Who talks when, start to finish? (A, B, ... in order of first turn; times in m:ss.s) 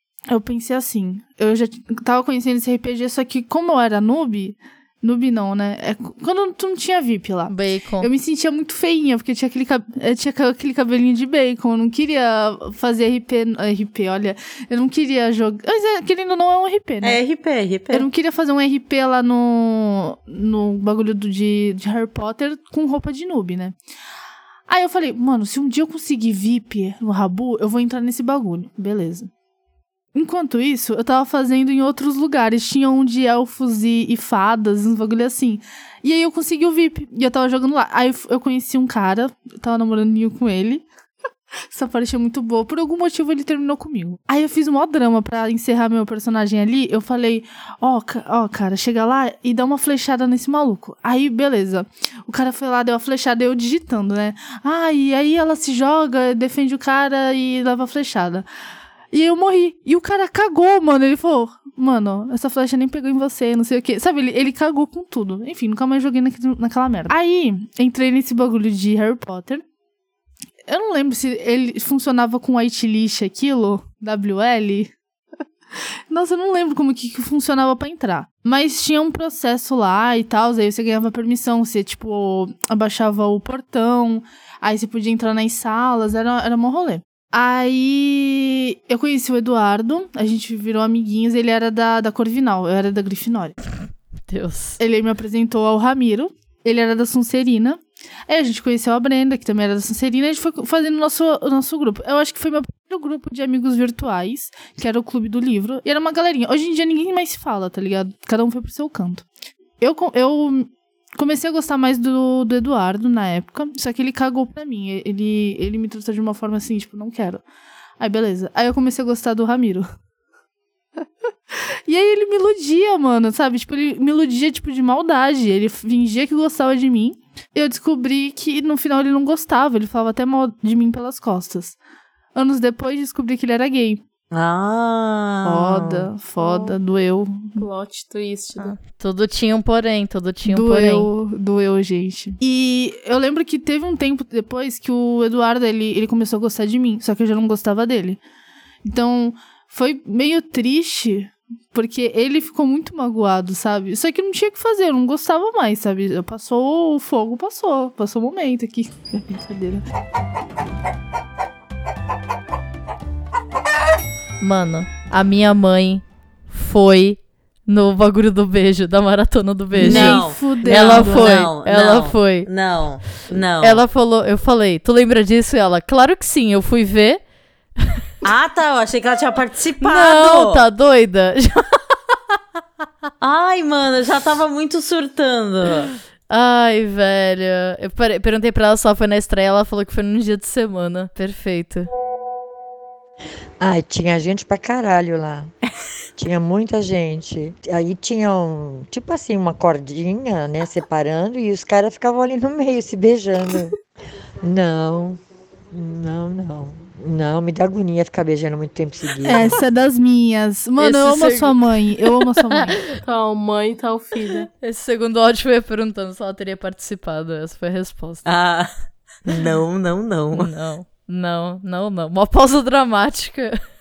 0:00.3-0:17.2 A
0:07.5-0:08.1 B
0:17.0-0:18.0 C
0:17.9-0:23.7 A
0:24.7-0:29.3 A
0:30.1-0:40.8 A
0:41.7-0:58.4 A
0:59.1-1:09.6 A
1:10.7-1:14.9 A
1:15.8-1:33.6 A
1:34.3-1:34.8 B
1:34.8-1:49.2 A
1:49.8-1:57.4 A
1:58.0-1:59.8 A
2:01.5-2:11.8 A
2:12.3-2:14.0 A
2:14.3-2:16.1 C
2:15.4-2:17.7 A
2:16.4-2:16.7 D
2:17.6-2:18.7 D
2:18.6-2:21.1 B
2:20.4-2:28.2 A
2:28.8-2:39.8 A
2:44.4-2:52.5 B
2:49.7-2:51.5 A
2:49.8-2:53.8 C
2:53.6-2:57.2 B
2:58.2-3:00.6 C
2:59.8-3:01.8 B
3:03.2-3:05.9 C
3:06.3-3:11.9 B
3:13.6-3:15.5 E
3:16.2-3:23.8 E
3:24.4-3:25.2 E
3:25.7-3:29.6 E
3:29.2-3:32.8 A
3:30.8-3:31.6 B
3:33.0-3:34.5 D
3:34.6-3:38.2 B
3:38.2-3:38.7 C
3:39.2-3:40.5 C
3:40.3-3:43.6 B